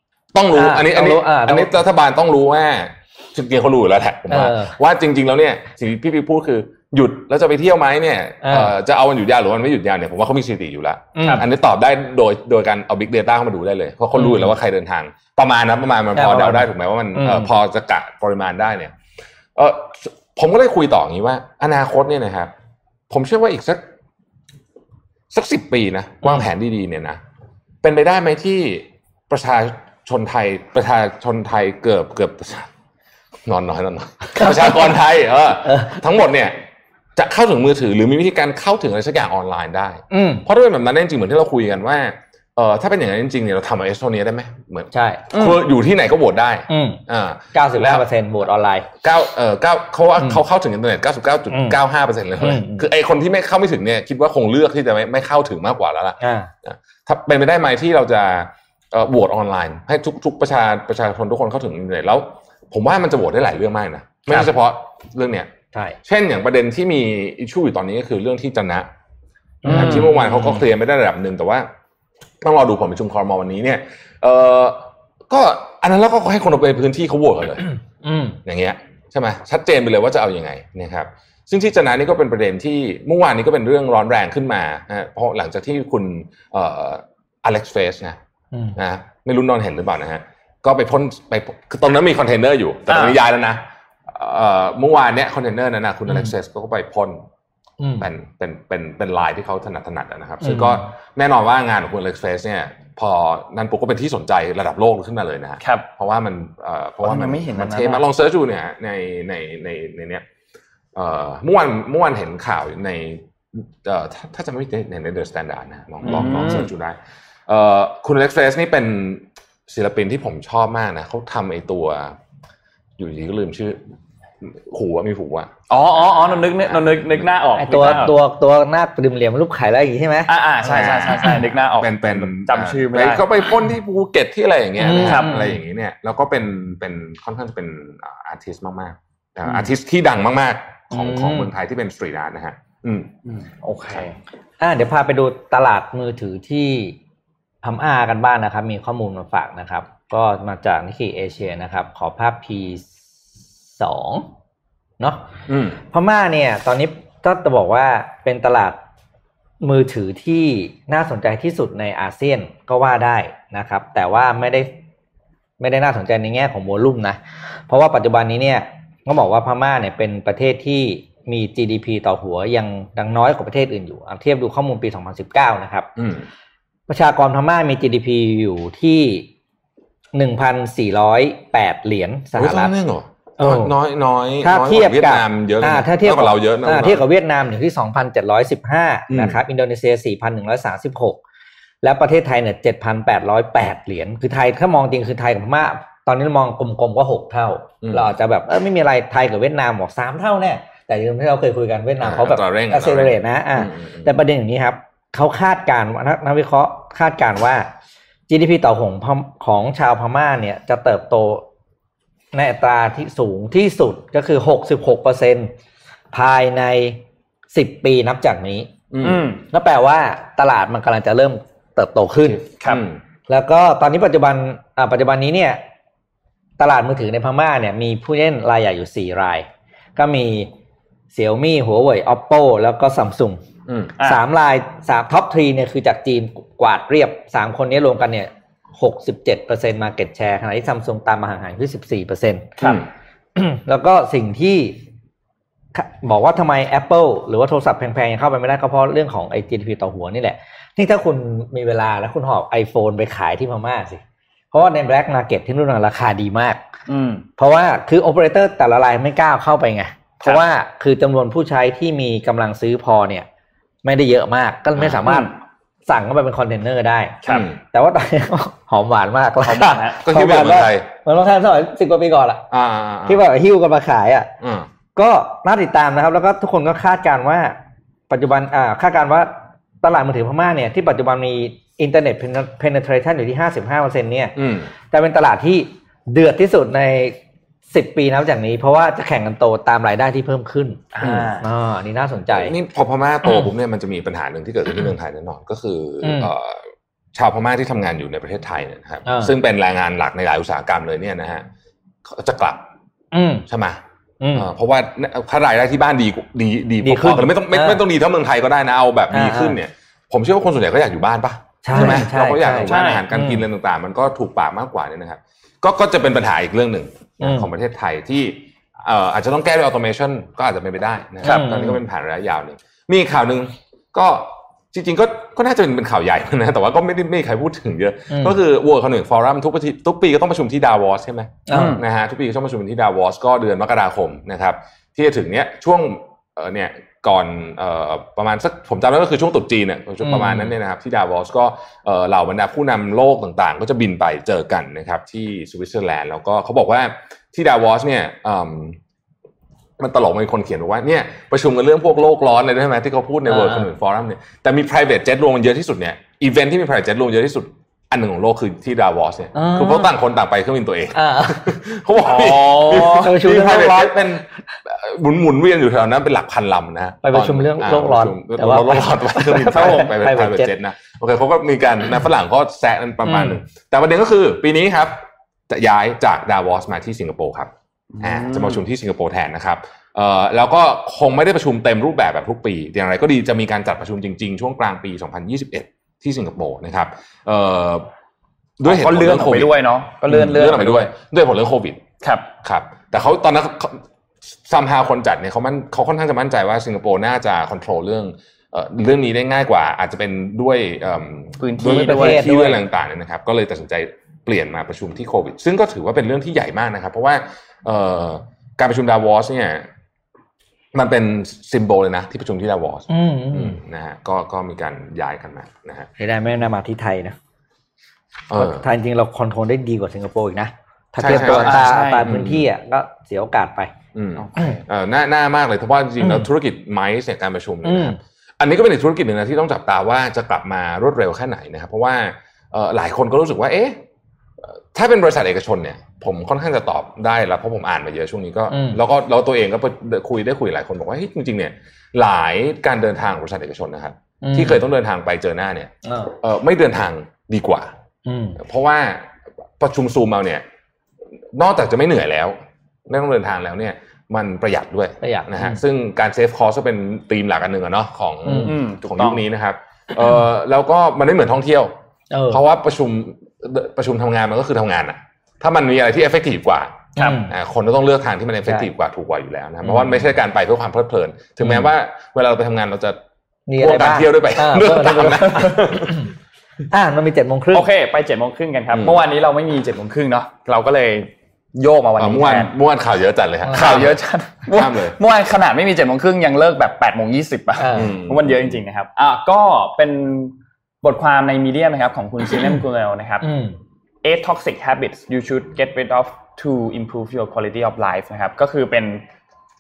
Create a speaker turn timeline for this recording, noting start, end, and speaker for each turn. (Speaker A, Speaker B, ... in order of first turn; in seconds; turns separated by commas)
Speaker A: 0.3-18.9, Speaker B: 0.5-1.8, Speaker B: 4.3-4.8, Speaker B: 8.4-8.7, Speaker B: 11.2-11.5, Speaker C: 11.2-11.5, Speaker B: 14.2-14.5, Speaker B: 16.1-17.5, Speaker A: 19.6-22.5, Speaker A: 23.1-23.8, Speaker A: 25.3-27.2, Speaker A: 27.8-32.7, Speaker A: 33.5-36.6, Speaker B: 34.4-35.0, Speaker B: 35.6-36.0, Speaker A: 37.2-48.1, Speaker B: 40.1-40.5, Speaker B: 44.9-45.3, Speaker B: 46.7-47.0, Speaker B: 47.5-48.9, Speaker A: 49.0-65.5, Speaker B: 51.5-51.8, Speaker B: 52.4-52.9, Speaker B: 56.2-56.5, Speaker A: 66.0-68.9, Speaker B: 69.6-70.6, Speaker A: 69.7-71.7, Speaker C: 69.7-70.1, Speaker A: 72.4-77.7, Speaker B: 78.0-78.4, Speaker A: 78.5-88.2, Speaker B: 88.5-88.8, Speaker A: 88.8-97.2, Speaker C: 92.9-93.2, Speaker B: 96.1-96.3, Speaker B: 97.8-98.1, Speaker A: 98.0-110.2, Speaker B: 100.4-100.8, Speaker C: 105.6-105.9, Speaker C: 107.0-108.0, Speaker A: 111.0-122.2, Speaker C: 116.0-116.7, Speaker A: 123.0-123.8, Speaker A: 124.4-128.0, Speaker C: 125.7-128.2, Speaker B: 127.6-130.3, Speaker C: 130.3-133.2, Speaker A: 130.7-143.1, Speaker B: 134.8-135.6, Speaker C: 135.0-135.4, Speaker B: 140.9-141.5, Speaker C: 143.3-144.2, Speaker B: 144.6-147.0, Speaker B: 147.6-152.9, Speaker B: 153.7-154.3, Speaker B: 155.0-155.3, Speaker A: 155.5-155.8, Speaker B: 155.9-158.8, Speaker B: 159.6-164.7, Speaker B: 165.6-175.9, Speaker A: 176.0-176.3, Speaker B: 176.9-179.3, Speaker B: 180.1-182.7, Speaker A: 182.4-187.0, Speaker B: 183.4-183.7, Speaker B: 184.4-191.2, Speaker A: 189.1-189.4, Speaker B: 191.8-207.7, Speaker A: 197.8-198.1, Speaker A: 202.0-204.2, Speaker B: 208.3-211.4, Speaker B: 212.3-215.5, Speaker B: 216.1-218.8, Speaker A: 218.9-219.2, Speaker C: 219.0-219.4, Speaker B: 219.5-222.4, Speaker A: 222.7-223.0, Speaker B: 223.3-225.6, Speaker B: 226.6-230.5, Speaker B: 231.1-233.4, Speaker A: 233.7-233.9, Speaker B: 234.0-242.7, Speaker B: 243.3-244.8, Speaker B: 245.7-256.6, Speaker C: 256.9-257.3, Speaker B: 257.4-263.3, Speaker B: 263.8-265.3, Speaker A: 264.8-265.1, Speaker C: 265.1-265.3, Speaker B: 265.9-272.5, Speaker A: 267.3-267.6, Speaker C: 269.4-270.0, Speaker A: 270.0-270.9, Speaker A: 272.5-273.2, Speaker B: 273.1-274.3, Speaker A: 274.4-274.7, Speaker B: 275.0-277.6, Speaker B: 278.1-287.2, Speaker A: 284.4-284.7, Speaker B: 287.7-292.6, Speaker C: 290.9-291.5, Speaker A: 291.0-291.3, Speaker A: 292.3-301.5, Speaker B: 296.0-296.3, Speaker B: 299.1-299.4, Speaker A: 302.1-302.6, Speaker B: 303.1-303.5, Speaker A: 303.5-303.8, Speaker B: 304.2-304.5, Speaker A: 304.4-348.8, Speaker B: 306.8-307.8, Speaker B: 309.1-309.6, Speaker B: 311.6-313.4, Speaker C: 311.7-312.1, Speaker C: 312.7-313.0, Speaker B: 317.2-317.5, Speaker C: 321.2-321.5, Speaker B: 321.2-321.8, Speaker B: 328.1-328.4, Speaker B: 331.5-331.8, Speaker C: 331.5-331.8, Speaker B: 340.0-340.5, Speaker A: 349.8-377.5, Speaker B: 353.3-353.7, Speaker B: 359.4-359.9, Speaker B: 360.9-361.6, Speaker C: 362.0-363.1, Speaker B: 362.7-364.1, Speaker B: 367.0-370.5, Speaker B: 373.1-373.4, Speaker C: 377.9-378.6, Speaker A: 378.0-387.9, Speaker A: 388.6-389.5, Speaker C: 388.6-390.9, Speaker A: 390.1-391.8, Speaker C: 392.0-392.3, Speaker A: 392.4-409.7, Speaker C: 401.4-402.4, Speaker B: 401.6-402.6, Speaker A: 410.7-415.9, Speaker B: 412.9-413.6, Speaker B: 416.0-417.2, Speaker A: 418.3-418.7, Speaker B: 418.3-423.7, Speaker A: 421.0-422.5, Speaker C: 421.1-422.1, Speaker A: 423.9-433.8, Speaker C: 424.2-424.6, Speaker B: 426.0-426.3, Speaker B: 427.6-428.0, Speaker A: 434.4-447.7, Speaker B: 438.5-438.8, Speaker B: 444.2-444.6, Speaker B: 445.9-446.1, Speaker B: 448.1-448.4, Speaker A: 448.4-449.1, Speaker A: 449.6-450.4, Speaker A: 451.3-461.7, Speaker B: 455.0-455.6, Speaker B: 458.3-458.5, Speaker C: 458.4-459.2, Speaker B: 462.1-462.4, Speaker A: 462.3-473.0, Speaker C: 467.0-467.3, Speaker B: 467.0-467.3, Speaker B: 469.6-470.0, Speaker B: 471.4-471.7, Speaker B: 473.5-476.1, Speaker A: 473.6-476.1, Speaker B: 476.7-477.7, Speaker C: 477.5-482.5, Speaker A: 478.7-479.0, Speaker A: 482.0-484.0, Speaker B: 483.4-483.9, Speaker C: 483.5-493.3, Speaker A: 484.5-485.0, Speaker B: 487.6-488.0, Speaker A: 487.7-488.6, Speaker B: 493.2-493.6, Speaker C: 494.0-499.1